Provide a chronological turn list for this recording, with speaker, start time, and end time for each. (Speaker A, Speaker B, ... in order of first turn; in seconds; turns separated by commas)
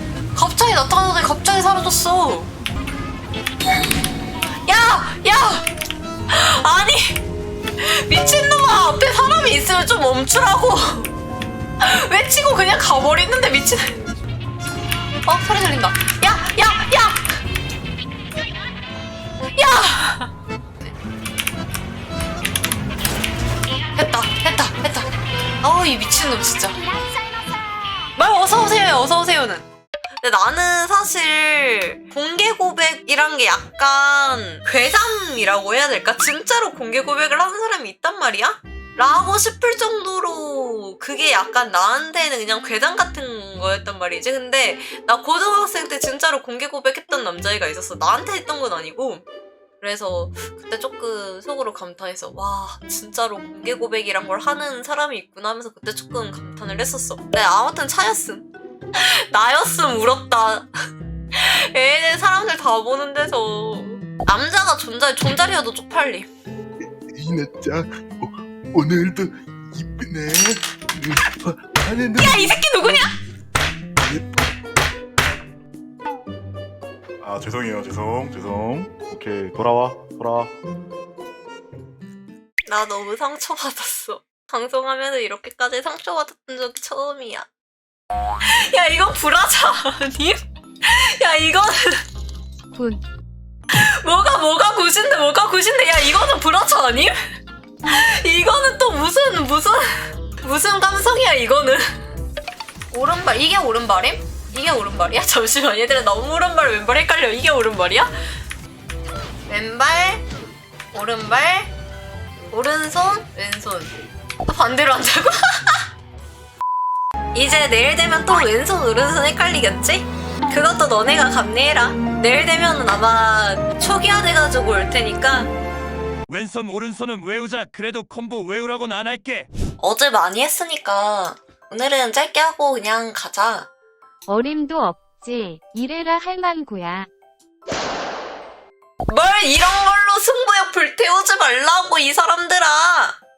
Speaker A: 0.3-2.5, Speaker A: 4.7-5.7, Speaker A: 6.3-7.2, Speaker A: 7.8-11.1, Speaker A: 11.8-14.1, Speaker A: 15.2-17.2, Speaker A: 19.6-20.3, Speaker A: 23.9-25.1, Speaker A: 25.6-26.8, Speaker B: 26.8-28.1, Speaker A: 28.2-29.7, Speaker A: 30.2-49.2, Speaker A: 49.8-60.7, Speaker A: 61.4-66.3, Speaker C: 67.2-73.0, Speaker A: 72.2-73.1, Speaker C: 74.0-74.4, Speaker D: 77.2-80.5, Speaker A: 82.7-87.5, Speaker A: 88.5-92.0, Speaker B: 92.7-93.0, Speaker A: 93.7-97.1, Speaker A: 97.9-101.8, Speaker A: 102.9-108.1, Speaker A: 109.5-110.2, Speaker A: 110.9-111.7, Speaker A: 112.5-113.9, Speaker A: 114.5-115.8, Speaker A: 117.3-125.5, Speaker E: 126.3-129.5, Speaker A: 129.8-133.7, Speaker B: 134.3-137.1, Speaker A: 139.1-143.2